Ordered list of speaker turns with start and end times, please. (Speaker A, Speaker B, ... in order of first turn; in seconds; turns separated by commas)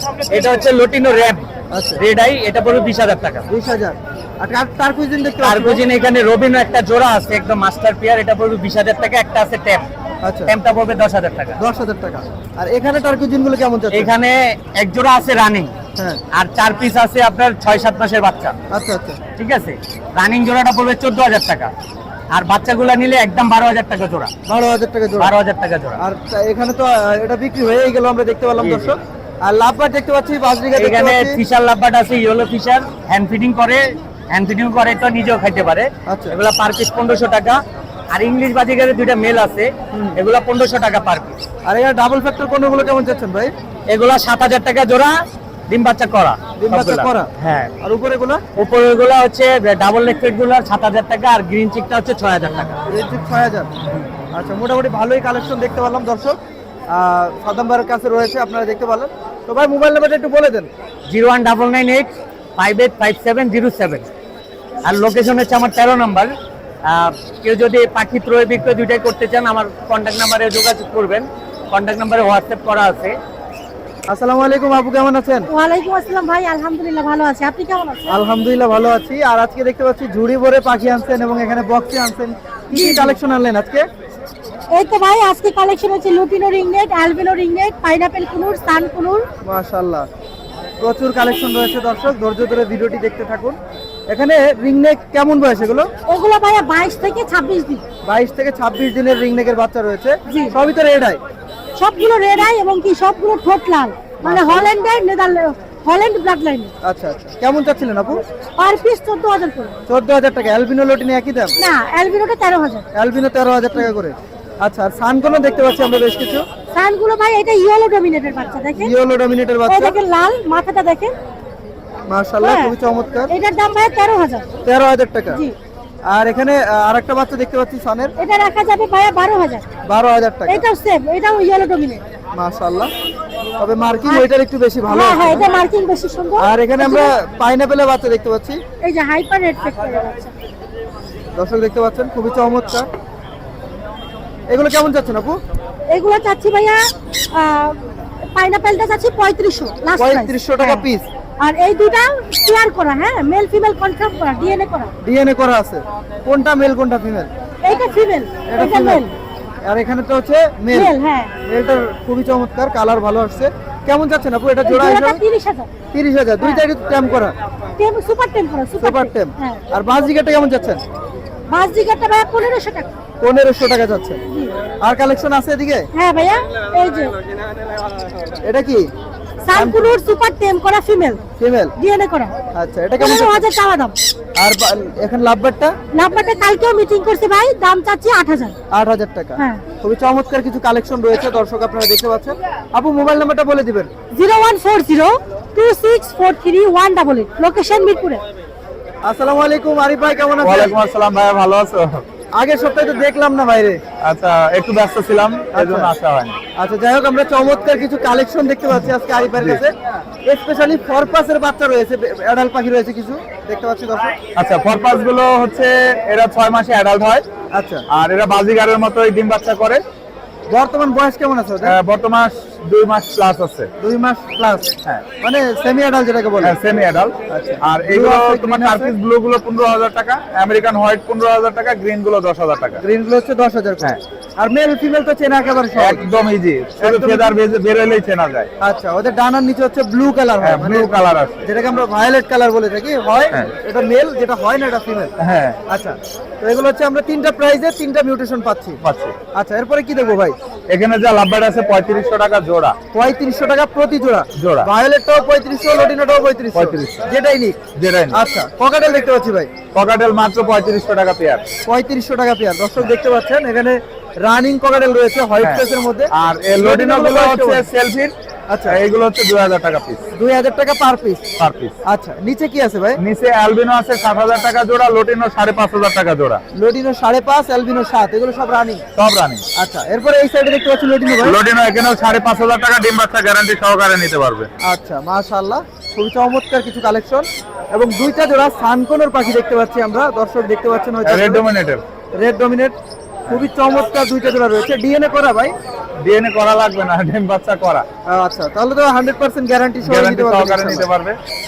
Speaker A: 0.3-1.5, Speaker B: 1.7-2.0, Speaker A: 2.0-3.5, Speaker B: 3.5-5.8, Speaker A: 5.4-9.9, Speaker B: 10.2-10.5, Speaker A: 10.5-11.6, Speaker B: 11.6-14.1, Speaker A: 13.9-15.7, Speaker A: 16.3-18.6, Speaker B: 18.7-19.2, Speaker A: 19.4-21.7, Speaker A: 22.3-24.3, Speaker B: 24.5-25.3, Speaker A: 25.2-26.0, Speaker B: 26.0-31.4, Speaker A: 28.6-28.9, Speaker A: 30.8-37.6, Speaker B: 36.1-36.4, Speaker A: 38.1-41.4, Speaker B: 39.9-40.2, Speaker B: 41.7-43.5, Speaker A: 43.9-45.2, Speaker A: 45.7-47.7, Speaker B: 46.6-47.3, Speaker B: 47.8-48.4, Speaker A: 48.6-52.8, Speaker B: 52.9-53.7, Speaker B: 54.3-56.4, Speaker B: 56.9-60.7, Speaker A: 61.1-64.1, Speaker A: 64.8-66.3, Speaker A: 66.9-73.2, Speaker B: 74.1-75.5, Speaker C: 75.5-78.2, Speaker B: 78.1-83.9, Speaker C: 82.7-83.2, Speaker C: 84.7-89.3, Speaker B: 89.4-90.1, Speaker B: 90.8-93.6, Speaker B: 94.1-95.9, Speaker C: 96.1-97.8, Speaker B: 98.0-101.2, Speaker C: 100.3-100.5, Speaker C: 101.8-106.7, Speaker B: 104.2-104.7, Speaker B: 106.8-108.2, Speaker C: 108.6-109.8, Speaker B: 109.9-111.5, Speaker C: 111.6-112.8, Speaker B: 112.9-116.5, Speaker C: 116.7-118.9, Speaker B: 118.8-120.0, Speaker C: 119.7-121.1, Speaker B: 122.1-123.3, Speaker C: 122.4-122.7, Speaker C: 123.3-124.5, Speaker B: 124.7-125.4, Speaker C: 125.3-125.6, Speaker B: 126.1-128.1, Speaker C: 128.2-129.7, Speaker B: 129.9-130.6, Speaker C: 130.5-132.0, Speaker B: 132.4-132.9, Speaker B: 133.6-135.5, Speaker C: 134.9-137.1, Speaker B: 136.4-138.6, Speaker C: 138.8-140.3, Speaker B: 141.3-142.9, Speaker B: 144.5-145.4, Speaker C: 145.9-150.8, Speaker B: 150.0-151.1, Speaker C: 151.4-154.9, Speaker B: 155.0-157.3, Speaker C: 157.6-159.1, Speaker B: 158.5-159.0, Speaker B: 159.7-160.9, Speaker C: 160.7-161.3, Speaker B: 161.4-165.2, Speaker C: 164.6-165.7, Speaker B: 165.9-167.3, Speaker C: 166.4-166.7, Speaker C: 167.8-169.6, Speaker B: 168.8-170.8, Speaker C: 171.5-172.9, Speaker B: 173.2-174.2, Speaker B: 174.8-175.9, Speaker C: 175.9-177.2, Speaker B: 178.4-178.9, Speaker C: 179.5-181.2, Speaker B: 179.5-179.9, Speaker B: 181.4-181.7, Speaker C: 181.8-182.4, Speaker B: 182.6-183.4, Speaker C: 183.0-183.9, Speaker B: 184.4-185.8, Speaker C: 185.9-188.6, Speaker B: 188.7-193.9, Speaker C: 189.4-189.6, Speaker C: 194.1-198.2, Speaker B: 199.0-200.8, Speaker D: 200.4-202.0, Speaker B: 202.4-203.8, Speaker D: 204.0-206.3, Speaker B: 205.5-205.9, Speaker B: 206.6-214.2, Speaker D: 214.4-217.2, Speaker B: 217.5-217.8, Speaker D: 217.9-219.8, Speaker B: 220.5-221.8, Speaker D: 221.7-223.7, Speaker B: 223.8-226.6, Speaker D: 226.4-232.8, Speaker B: 227.3-228.9, Speaker B: 232.8-236.1, Speaker D: 235.8-238.5, Speaker B: 236.8-237.4, Speaker B: 238.6-245.1, Speaker D: 240.4-241.4, Speaker D: 245.2-245.6, Speaker B: 245.7-248.8, Speaker D: 248.8-249.2, Speaker B: 249.3-250.4, Speaker D: 250.7-252.8, Speaker B: 252.9-259.5, Speaker D: 254.4-254.7, Speaker D: 256.5-257.1, Speaker D: 257.8-258.2, Speaker D: 259.7-261.4, Speaker B: 261.7-267.7, Speaker D: 265.4-268.1, Speaker B: 268.5-268.8, Speaker D: 268.7-270.0, Speaker B: 270.2-271.2, Speaker D: 271.4-271.8, Speaker B: 271.9-273.0, Speaker D: 273.0-276.4, Speaker B: 276.6-278.8, Speaker D: 279.0-279.4, Speaker B: 279.6-281.4, Speaker D: 281.2-284.5, Speaker B: 284.6-291.4, Speaker D: 291.1-291.8, Speaker B: 292.2-292.8, Speaker B: 293.3-295.5, Speaker D: 296.0-297.9, Speaker B: 298.1-300.9, Speaker D: 299.8-301.2